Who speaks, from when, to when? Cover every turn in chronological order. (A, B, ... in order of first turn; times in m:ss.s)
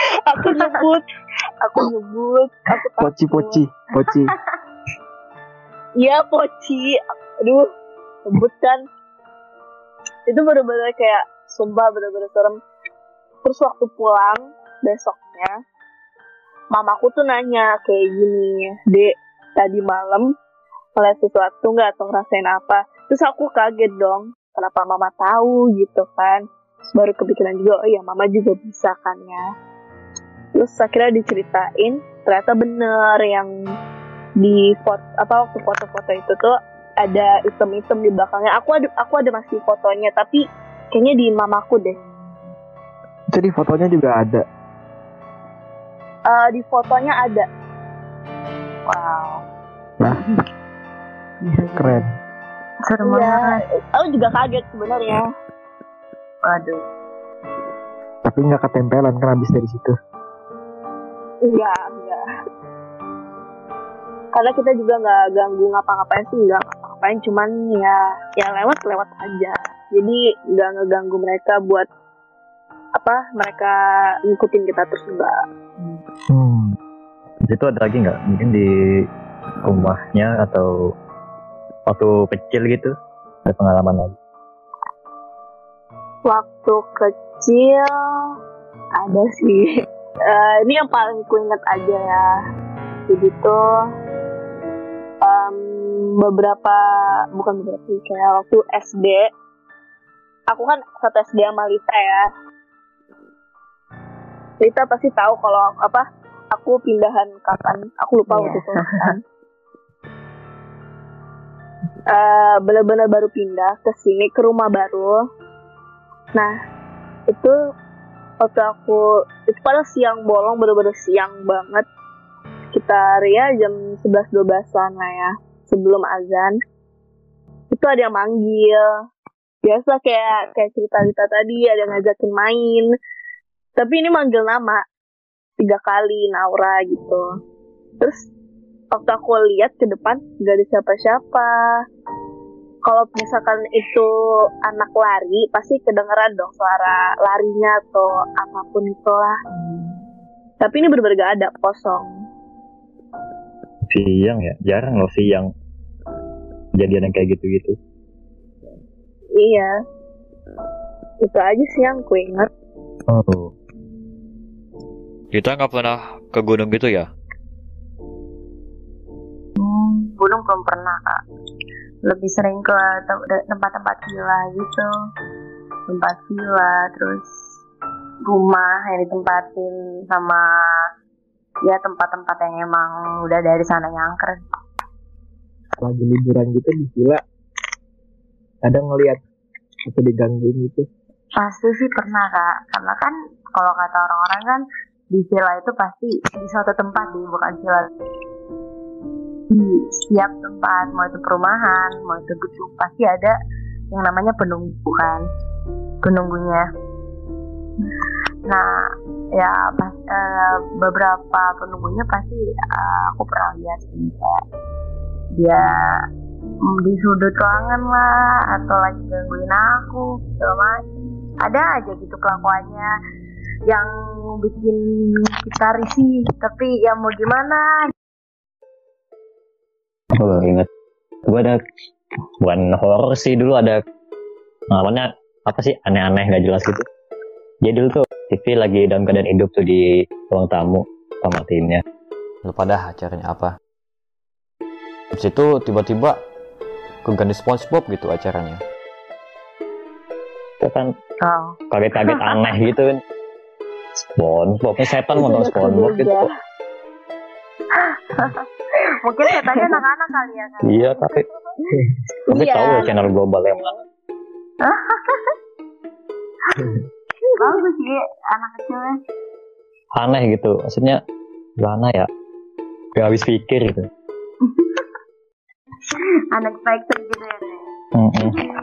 0:00.2-0:01.0 A
0:00.4-0:00.8 B
0:01.6-0:03.6 A
0:03.0-0:04.3 C
0:06.0-0:07.7 A
0:08.3-0:08.8 A
0:10.3-0:12.6 A
0:13.4-0:15.6 A
0:16.7-0:20.3 A
0:21.0-0:29.4 A
0:30.6-0:33.5 A
0:34.4-0:42.0 A
0:43.3-0:44.4 C
0:46.3-0:47.5 A
0:48.9-0:49.4 B
0:51.4-0:52.0 B
0:51.8-0:52.1 C
0:52.8-0:53.6 B
0:53.0-0:55.3 A
0:56.4-0:56.8 B
0:58.2-0:59.9 C
1:01.4-1:02.2 A
1:04.3-1:11.9 A
1:13.0-1:15.4 A
1:16.3-1:16.7 C
1:17.5-1:19.0 D
1:19.6-1:20.7 D
1:21.9-1:22.9 D
1:23.4-1:24.1 D
1:26.2-1:27.9 A
1:29.0-1:29.7 A
1:30.3-1:32.3 A
1:33.1-1:33.6 A
1:35.2-1:36.8 A
1:37.3-1:39.3 A
1:40.5-1:42.3 A
1:44.6-1:49.2 A
1:48.3-1:49.1 B
1:52.1-1:55.2 A
1:57.3-1:57.5 A
1:58.4-2:01.8 A
2:02.7-2:06.6 A
2:07.7-2:08.9 A
2:09.6-2:12.9 A
2:13.8-2:14.8 A
2:15.6-2:17.3 A
2:18.0-2:18.2 A
2:18.9-2:21.5 A
2:22.8-2:24.1 A
2:24.6-2:29.4 A
2:29.5-2:30.0 B
2:30.6-2:32.1 A
2:33.9-2:35.5 D
2:36.8-2:37.8 D
2:39.4-2:39.8 A
2:41.2-2:42.5 A
2:43.1-2:43.5 D
2:45.3-2:47.1 E
2:49.6-2:51.2 B
2:52.0-2:54.9 B
2:55.9-2:57.3 B
2:58.2-3:00.8 B
3:01.6-3:04.4 B
3:05.8-3:07.2 C
3:08.6-3:09.2 C
3:09.8-3:10.9 C
3:11.4-3:17.9 B
3:19.5-3:23.3 B
3:23.9-3:25.2 B
3:26.0-3:26.6 B
3:29.3-3:34.4 B
3:35.3-3:35.7 B
3:36.6-3:40.8 B
3:41.4-3:42.9 B
3:44.4-3:47.9 B
3:50.1-3:50.7 D
3:51.3-3:51.6 D
3:52.4-3:53.8 D
3:54.7-3:56.8 D
3:57.6-4:01.8 D
4:02.4-4:03.6 E
4:05.1-4:06.2 E
4:07.0-4:08.6 E
4:10.6-4:10.9 D
4:11.2-4:11.6 B
4:11.7-4:13.0 D
4:14.1-4:16.2 D
4:15.1-4:16.2 A
4:17.7-4:21.3 B
4:19.3-4:19.7 A
4:20.6-4:21.2 D
4:22.3-4:23.1 A
4:22.3-4:23.8 D
4:24.6-4:25.3 B
4:26.5-4:26.8 B
4:27.4-4:29.0 B
4:30.0-4:31.0 D
4:31.6-4:32.1 D
4:33.0-4:33.9 D
4:34.4-4:34.9 B
4:35.9-4:37.7 B
4:37.9-4:38.4 D